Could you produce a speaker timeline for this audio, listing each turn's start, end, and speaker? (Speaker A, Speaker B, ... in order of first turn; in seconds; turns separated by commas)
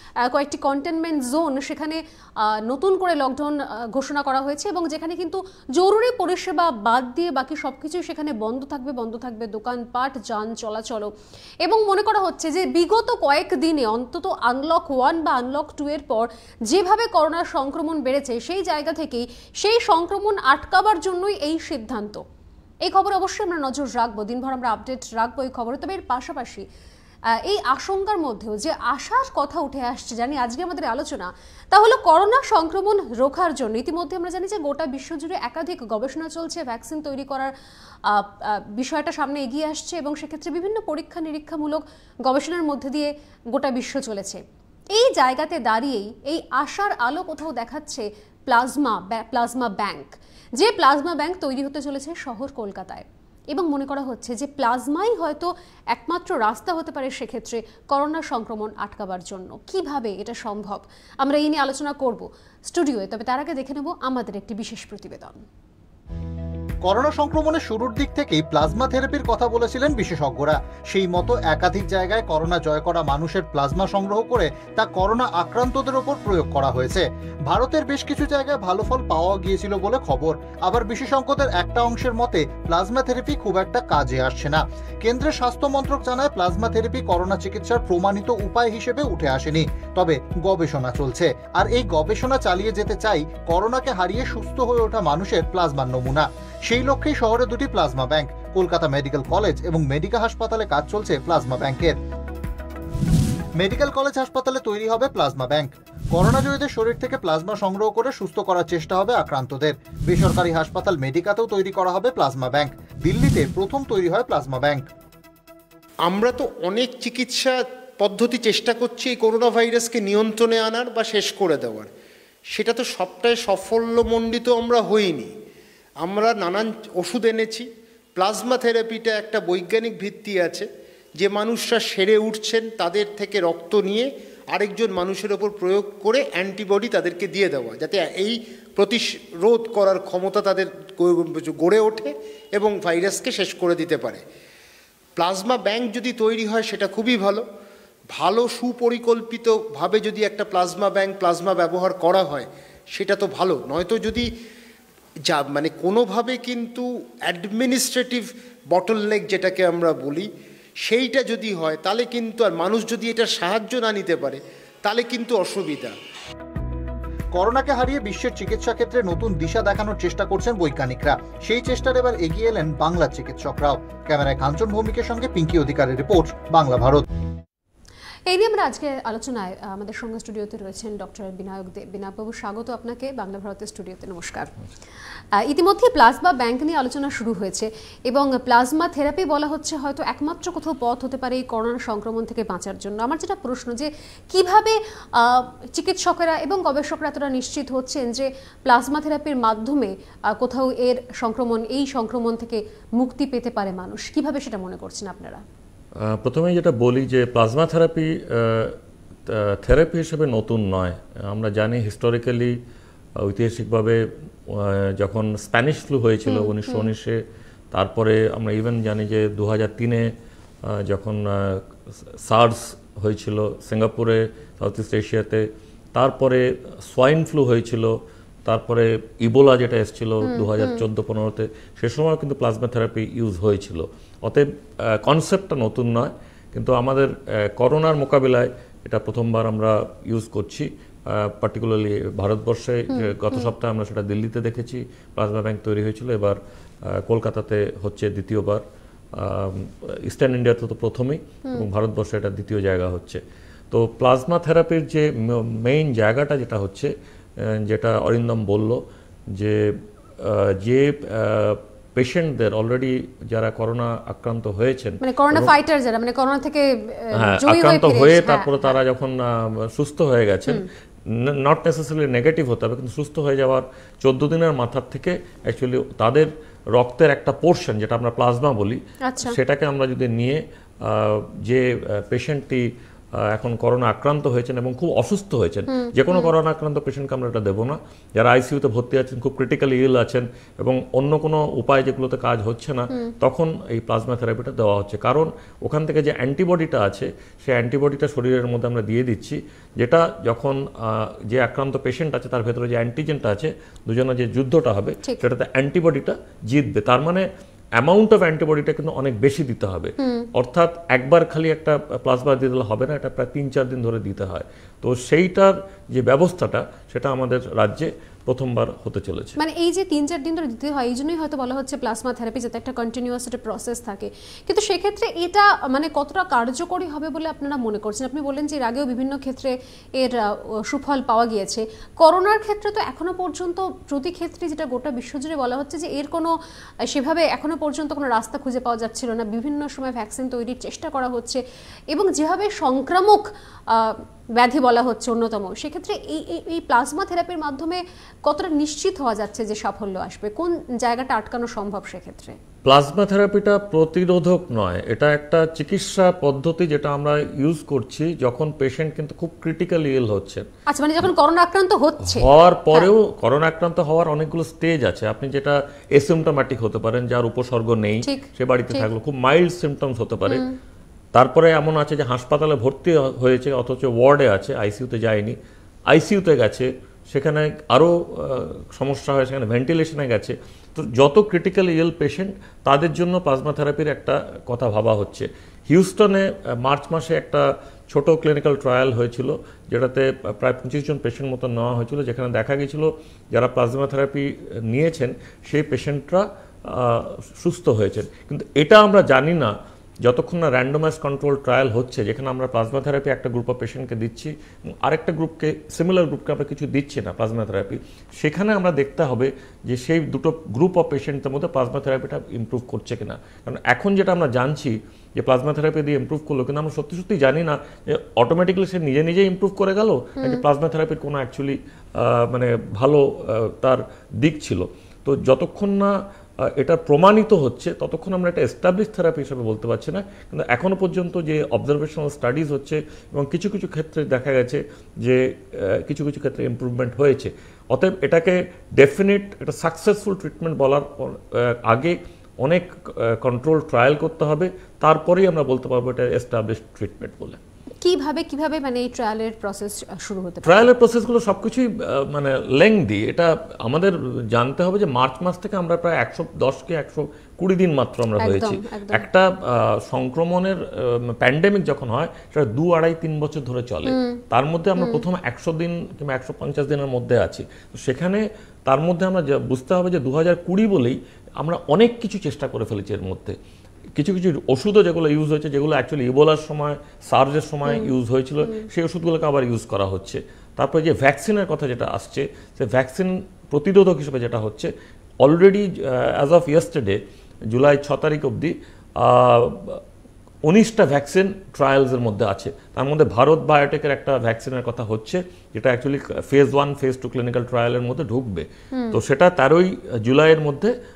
Speaker A: 0.2-11.1, Speaker A: 11.6-22.2, Speaker A: 22.8-26.6, Speaker A: 27.3-37.5, Speaker A: 38.0-44.4, Speaker A: 44.9-65.5, Speaker B: 66.8-102.0, Speaker B: 103.6-114.9, Speaker C: 116.0-121.9, Speaker C: 122.5-125.3, Speaker C: 126.0-144.2, Speaker C: 145.2-147.4, Speaker C: 148.1-154.3, Speaker C: 155.3-160.3, Speaker C: 160.8-165.9, Speaker B: 167.3-177.1, Speaker A: 178.3-184.5, Speaker A: 185.3-205.4, Speaker D: 206.0-212.6, Speaker D: 213.2-217.2, Speaker A: 216.3-216.9, Speaker D: 217.7-220.1, Speaker D: 220.6-221.6, Speaker D: 222.2-248.6, Speaker A: 230.2-230.8, Speaker A: 242.9-243.5, Speaker D: 249.1-258.8, Speaker D: 259.3-265.5, Speaker A: 265.0-268.7, Speaker D: 267.1-319.4, Speaker A: 279.0-279.4, Speaker A: 285.7-286.3, Speaker A: 310.0-310.3, Speaker A: 319.4-336.3, Speaker A: 336.9-341.4, Speaker A: 341.9-352.4, Speaker D: 352.6-360.5, Speaker A: 360.7-362.9, Speaker D: 362.0-370.4, Speaker A: 368.0-368.9, Speaker A: 370.3-370.5, Speaker D: 371.1-375.4, Speaker D: 375.9-399.5, Speaker D: 400.0-425.9, Speaker D: 426.4-447.4, Speaker A: 447.8-450.7, Speaker D: 450.4-473.4, Speaker A: 458.2-459.0, Speaker A: 463.9-464.2, Speaker A: 464.8-465.0, Speaker D: 473.9-484.7, Speaker D: 485.2-487.0, Speaker D: 487.5-489.8, Speaker D: 490.4-500.7, Speaker A: 498.7-499.0